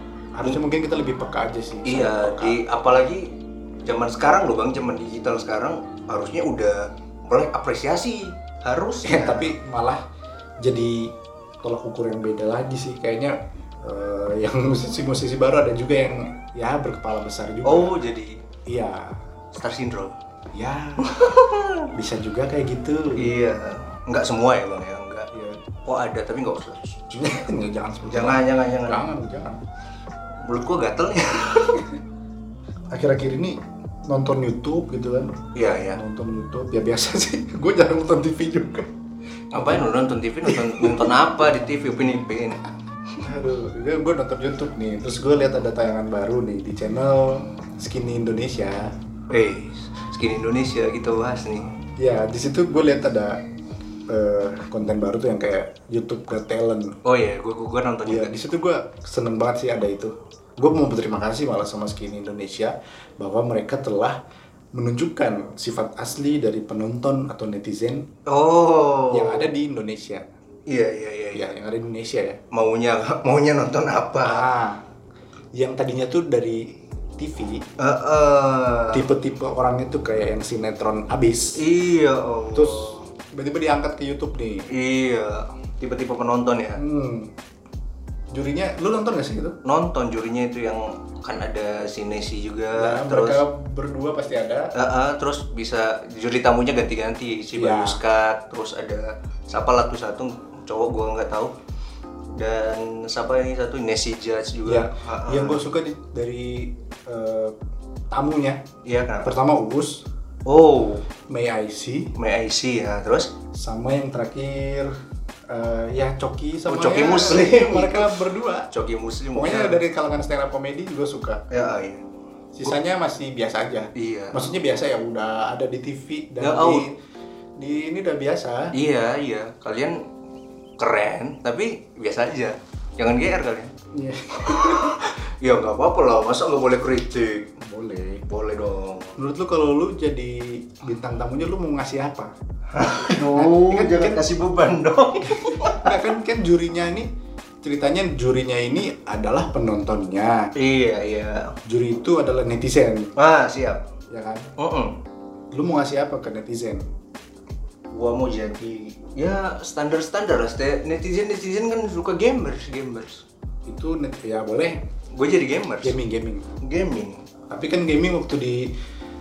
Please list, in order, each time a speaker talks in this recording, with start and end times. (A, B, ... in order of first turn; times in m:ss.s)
0:00.4-0:02.6 A
0:01.8-0:09.5 B
0:09.0-0:10.0 A
0:10.6-0:18.0 A
0:17.6-0:18.4 B
0:18.6-0:19.2 A
0:19.5-0:20.1 B
0:20.5-0:21.4 A
0:21.0-0:21.8 B
0:21.9-0:23.3 A
0:23.2-0:25.3 B
0:25.3-0:25.6 A
0:25.8-0:27.0 B
0:27.1-0:29.6 A
0:28.1-0:29.0 B
0:30.4-0:31.8 B
0:32.9-0:35.4 A
0:35.5-0:36.0 B
0:35.9-0:38.9 A
0:39.5-0:42.6 B
0:39.6-0:39.8 A
0:40.4-0:41.1 A
0:43.2-0:48.9 A
0:49.3-0:51.7 B
0:52.0-0:53.4 A
0:54.1-0:57.0 A
0:57.0-0:58.4 B
0:58.0-1:04.2 A
1:04.7-1:08.1 A
1:08.3-1:09.5 B
1:09.1-1:10.2 A
1:10.7-1:11.5 B
1:11.3-1:12.4 A
1:12.5-1:14.4 B
1:14.2-1:14.8 A
1:15.6-1:17.6 A
1:17.8-1:19.1 B
1:18.9-1:21.6 A
1:21.6-1:23.0 B
1:22.6-1:24.6 A
1:24.7-1:26.8 B
1:26.8-1:27.3 A
1:28.3-1:29.6 A
1:29.6-1:33.4 B
1:32.8-1:34.7 A
1:34.7-1:41.6 B
1:37.5-1:38.0 A
1:42.4-1:45.6 B
1:44.6-1:47.6 A
1:48.1-1:48.6 A
1:48.8-1:49.3 B
1:49.2-1:50.1 A
1:50.4-1:51.0 B
1:51.3-1:52.1 A
1:52.1-1:53.3 B
1:53.5-1:54.9 A
1:55.5-1:58.7 A
1:56.6-1:58.1 B
1:58.7-1:59.8 B
1:59.3-2:01.4 A
2:01.5-2:02.0 B
2:02.6-2:07.0 A
2:03.9-2:04.4 B
2:06.4-2:06.9 B
2:07.6-2:08.7 A
2:08.7-2:10.0 B
2:10.8-2:13.7 B
2:13.9-2:15.0 A
2:14.4-2:17.5 B
2:17.6-2:18.2 A
2:18.3-2:19.2 B
2:19.2-2:22.3 A
2:22.7-2:26.0 B
2:23.0-2:24.2 A
2:25.4-2:27.1 A
2:27.6-2:30.5 A
2:30.6-2:31.5 B
2:31.6-2:33.1 A
2:33.2-2:33.8 B
2:34.1-2:34.5 A
2:34.6-2:35.0 B
2:35.5-2:36.8 A
2:37.9-2:43.2 B
2:43.6-2:44.8 A
2:45.1-2:46.0 B
2:45.8-2:46.5 A
2:46.6-2:47.2 B
2:47.5-2:48.8 A